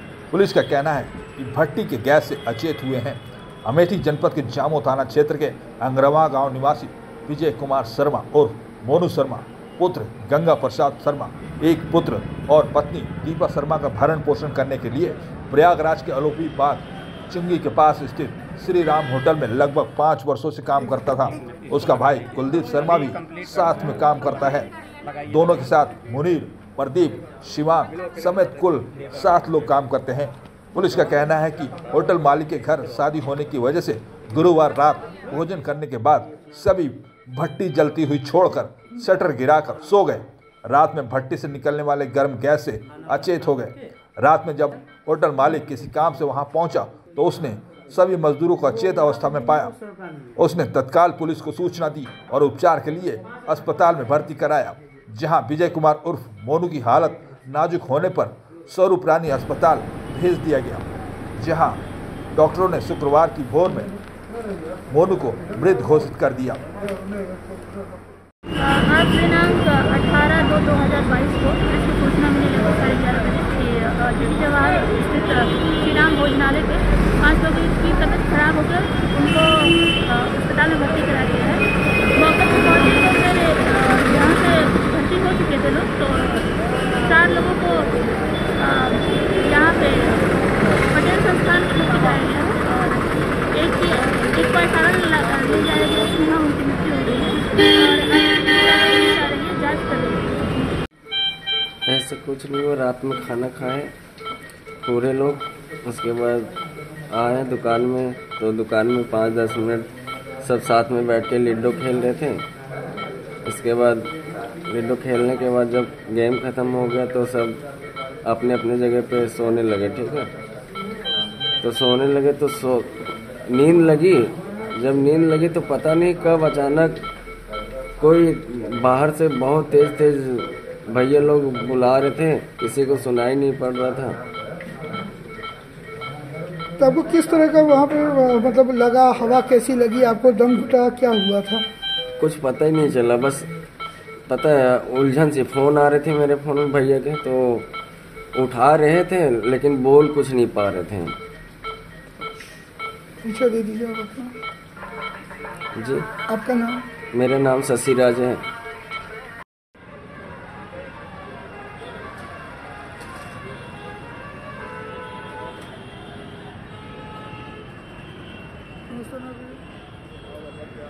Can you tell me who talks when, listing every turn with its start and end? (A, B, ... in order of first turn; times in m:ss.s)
0:00.3-0:24.7 A
0:25.2-0:49.7 A
0:50.4-1:00.8 A
1:01.4-1:01.8 A
1:02.3-1:03.9 A
1:04.9-1:06.6 A
1:08.6-1:21.6 B
1:22.2-1:27.9 B
1:28.6-1:30.3 B
1:30.9-1:40.7 B
1:41.8-1:43.9 C
1:44.8-1:46.5 C
1:47.1-1:49.9 C
1:50.4-1:52.5 C
1:53.4-1:54.1 C
1:54.7-1:57.6 C
1:58.2-2:00.3 C
2:01.6-2:07.0 C
2:08.0-2:14.2 C
2:16.8-2:21.6 D
2:22.2-2:23.5 C
2:24.3-2:27.7 C
2:28.3-2:31.2 C
2:33.2-2:34.3 D
2:35.7-2:36.1 C
2:36.3-2:36.8 D
2:37.1-2:38.4 C
2:49.0-2:49.6 D